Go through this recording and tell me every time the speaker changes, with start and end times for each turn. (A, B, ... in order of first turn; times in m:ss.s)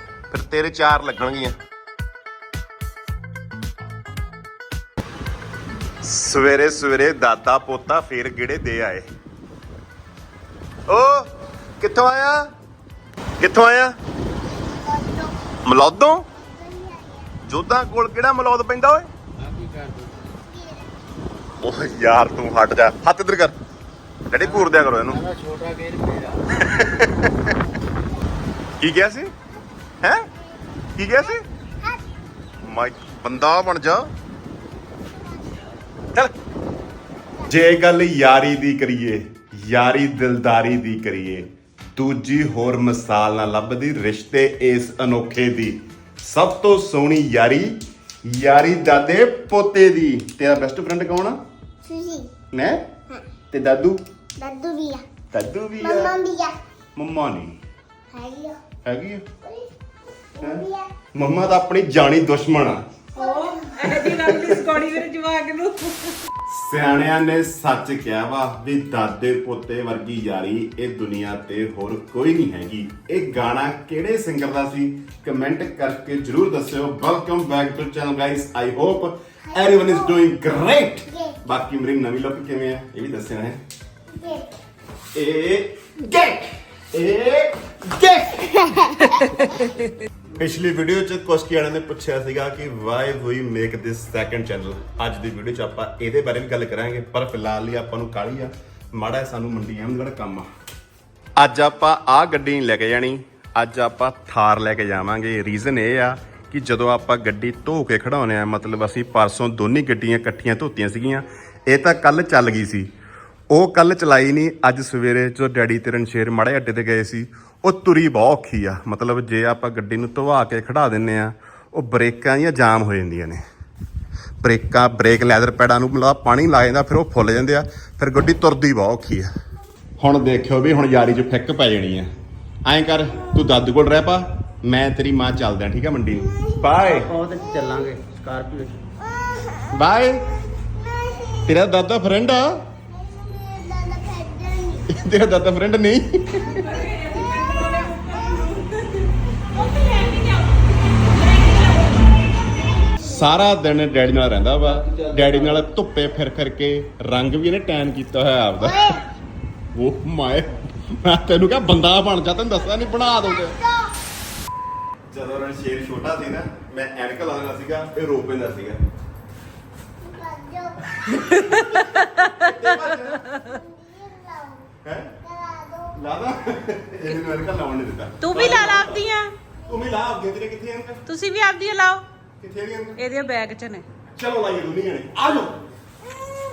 0:00.3-0:01.6 A
0:06.0-0:09.0 A
0:10.9-0:12.5 A
0:13.4-0:13.9 A
0:14.5-0:15.6 B
0:15.6-0:16.3 A
0:16.3-0:17.4 B
0:17.4-0:19.1 A
0:19.4-0:20.3 C
0:20.3-0:20.9 B
0:21.6-0:23.6 A
0:24.3-0:25.2 A
0:24.4-0:26.4 C
0:26.6-0:27.3 A
0:28.8-0:29.3 A
0:30.0-0:30.3 A
0:31.0-0:31.4 A
0:31.2-0:32.0 B
0:32.6-0:34.1 A
0:34.9-0:35.7 B
0:37.2-0:37.5 B
0:37.4-0:51.4 A
0:51.8-0:52.3 B
0:52.5-0:52.9 A
0:53.5-0:54.0 A
0:54.4-0:55.0 B
0:55.3-0:56.2 A
0:55.8-0:56.5 B
0:57.0-0:57.6 A
0:58.1-0:58.6 B
0:58.8-0:59.3 A
0:59.4-0:59.7 B
1:00.4-1:00.9 B
1:01.1-1:02.9 A
1:03.2-1:06.2 D
1:03.2-1:03.8 B
1:03.9-1:04.8 A
1:06.4-1:23.6 A
1:19.4-1:20.1 B
1:21.1-1:21.4 B
1:24.1-1:24.6 B
1:25.1-1:29.0 A
1:29.1-1:29.6 D
1:30.3-1:40.5 A
1:41.4-1:52.9 A
1:53.5-2:03.4 A
2:04.4-2:09.3 A
2:10.0-2:12.1 A
2:12.6-2:17.1 A
2:16.2-2:17.8 B
2:16.7-2:18.8 C
2:19.0-2:19.8 B
2:19.7-2:20.2 A
2:20.6-2:21.5 B
2:21.4-2:22.7 A
2:22.9-2:25.0 B
2:24.9-2:26.6 A
2:26.4-2:28.6 B
2:26.5-2:32.1 D
2:32.6-2:33.1 B
2:33.0-2:39.0 A
2:38.6-2:39.1 B
2:39.7-2:43.6 A
2:42.9-2:44.0 B
2:45.1-2:48.8 A
2:50.0-2:51.2 B
2:51.1-2:53.3 A
2:51.3-2:52.5 D
2:53.1-2:56.0 B
2:54.8-2:55.1 A
2:56.0-2:59.0 A
2:58.2-2:59.3 D
2:59.6-3:01.0 A
3:01.0-3:02.0 D
3:02.4-3:03.0 A
3:03.0-3:03.8 D
3:04.1-3:05.6 A